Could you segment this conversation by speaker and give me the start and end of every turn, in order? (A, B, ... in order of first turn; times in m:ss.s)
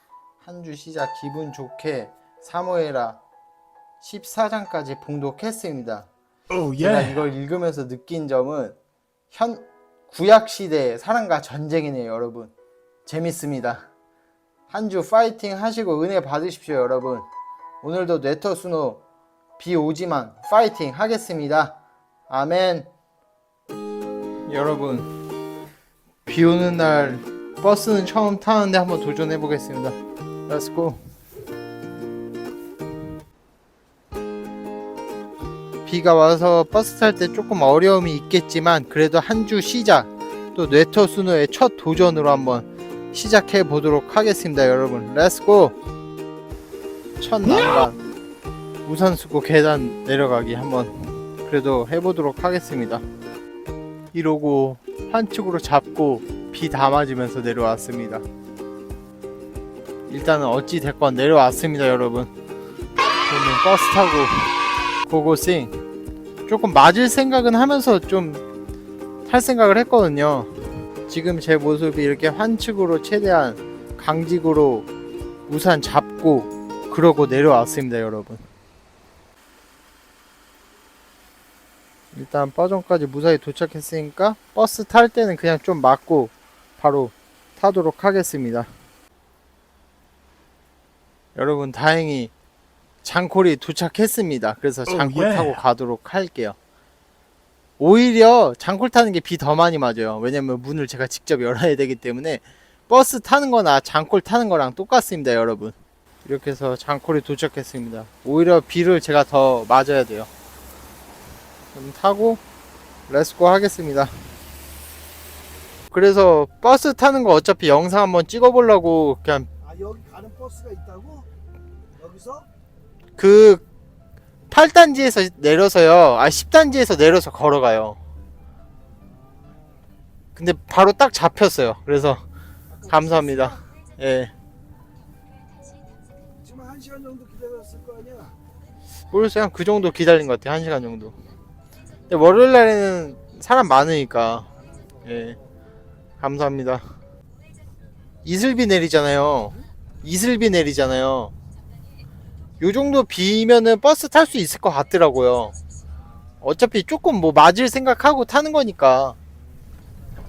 0:00.4-0:03.2 A
0:04.0-0:06.1 A
0:06.5-0:07.2 B
0:06.8-0:08.8 A
0:09.3-0:12.5 A
0:13.0-0:13.8 A
0:14.7-0:17.2 A
0:17.8-0:19.0 A
0:19.6-0:21.8 A
0:22.3-0:22.9 A
0:24.5-0:25.1 A
0:26.2-0:30.0 A
0:30.5-0:31.0 A
0:35.8-0:45.8 A
0:47.2-0:48.0 A
0:48.8-0:53.0 A
0:54.1-0:58.2 A
1:00.1-1:02.3 A
1:03.2-1:04.5 A
1:05.1-1:05.8 A
1:06.5-1:08.4 A
1:09.2-1:14.9 A
1:15.5-1:18.4 A
1:22.1-1:28.7 A
1:31.3-1:32.3 A
1:33.0-1:36.6 A
1:34.9-1:35.6 B
1:37.8-1:50.3 A
1:51.7-1:52.4 A
1:53.1-1:54.1 A
1:55.9-1:59.5 A
2:00.0-2:01.0 B
2:03.2-2:03.6 A
2:04.5-2:08.0 A
2:10.3-2:12.2 A
2:12.8-2:14.3 A
2:16.7-2:18.0 B
2:19.1-2:21.2 A
2:22.1-2:24.5 A
2:25.0-2:25.4 A
2:26.2-2:26.8 A
2:28.2-2:31.3 A
2:32.6-2:35.5 A
2:36.4-2:39.2 A